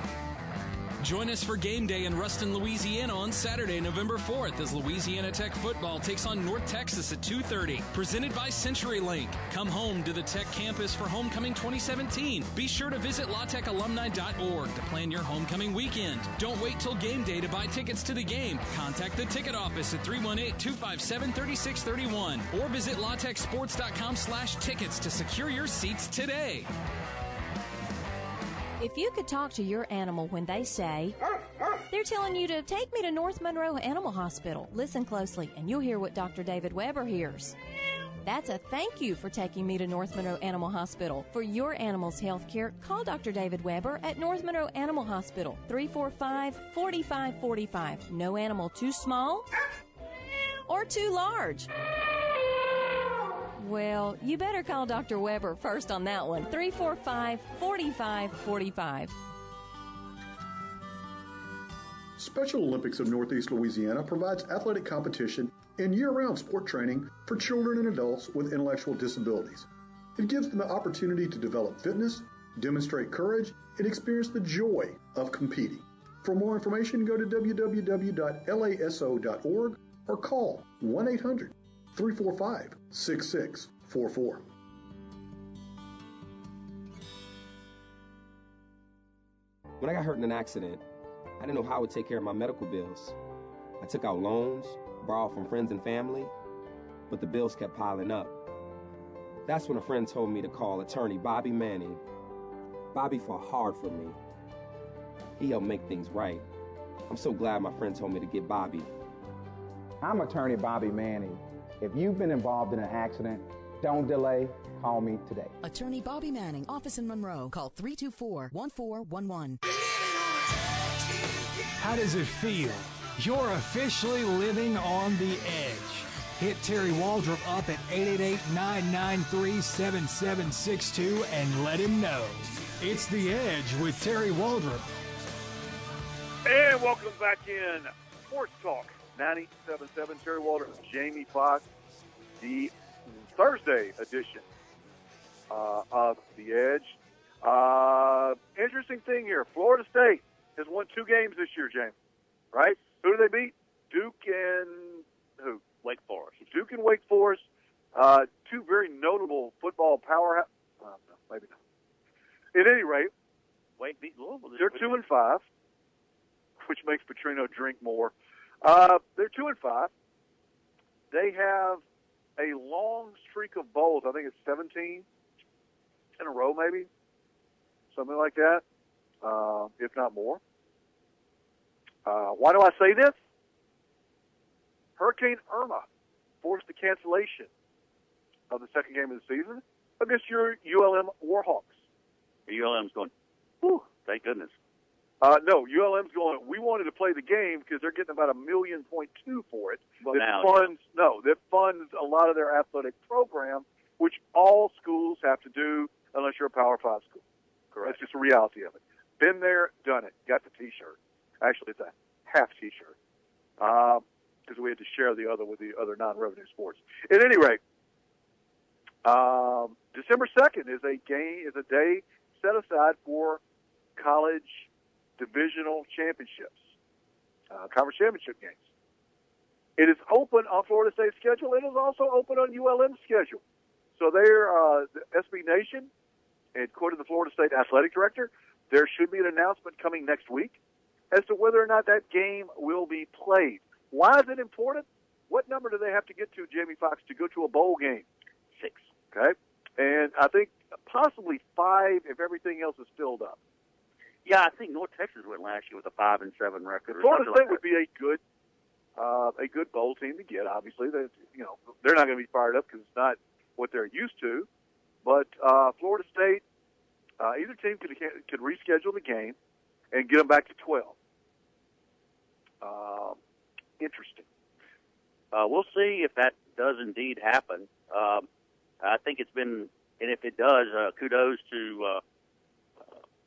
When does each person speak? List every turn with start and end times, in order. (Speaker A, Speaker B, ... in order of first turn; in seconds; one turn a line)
Speaker A: 1.0-26.7
Speaker B: 28.8-31.2
Speaker B: 31.9-37.5
Speaker B: 38.2-49.5
Speaker B: 50.7-51.7
Speaker B: 53.6-59.1
Speaker C: 62.2-84.5
Speaker D: 89.8-90.8
Speaker D: 91.4-93.2
Speaker D: 93.8-96.3
Speaker D: 97.1-98.4
Speaker D: 99.4-102.0
Speaker D: 102.9-104.2
Speaker D: 105.4-106.5
Speaker D: 107.1-108.9
Speaker E: 110.0-115.6
Speaker F: 115.6-119.6
Speaker G: 121.8-134.9
Speaker H: 136.4-141.6
Speaker H: 142.4-144.4
Speaker H: 145.5-151.9
Speaker H: 152.5-155.6
Speaker I: 155.8-156.4
Speaker H: 156.4-161.6
Speaker H: 162.5-163.1
Speaker I: 163.8-164.9
Speaker H: 164.6-165.4
Speaker H: 166.6-168.1
Speaker H: 168.6-169.9
Speaker H: 171.1-171.8
Speaker H: 172.4-175.0
Speaker H: 176.2-176.9
Speaker H: 177.9-178.6
Speaker H: 179.2-180.4
Speaker H: 182.1-183.1
Speaker H: 185.0-185.8
Speaker H: 186.4-187.5
Speaker H: 188.5-191.8
Speaker I: 192.5-194.5
Speaker H: 195.2-207.2
Speaker I: 200.0-200.7
Speaker I: 207.7-208.0
Speaker H: 207.8-212.9
Speaker H: 213.6-217.6
Speaker H: 219.0-223.4
Speaker H: 224.0-226.7
Speaker H: 227.5-228.6
Speaker H: 229.8-233.4
Speaker H: 234.0-235.9
Speaker H: 236.5-240.6
Speaker H: 241.1-248.0
Speaker I: 248.5-248.9
Speaker H: 249.1-253.4
Speaker I: 254.2-257.6
Speaker H: 256.9-258.2
Speaker H: 258.9-264.5
Speaker H: 265.0-266.4
Speaker H: 267.2-269.4
Speaker H: 269.9-270.9
Speaker H: 272.6-273.2
Speaker H: 273.8-274.2
Speaker I: 275.3-278.2
Speaker I: 278.8-282.0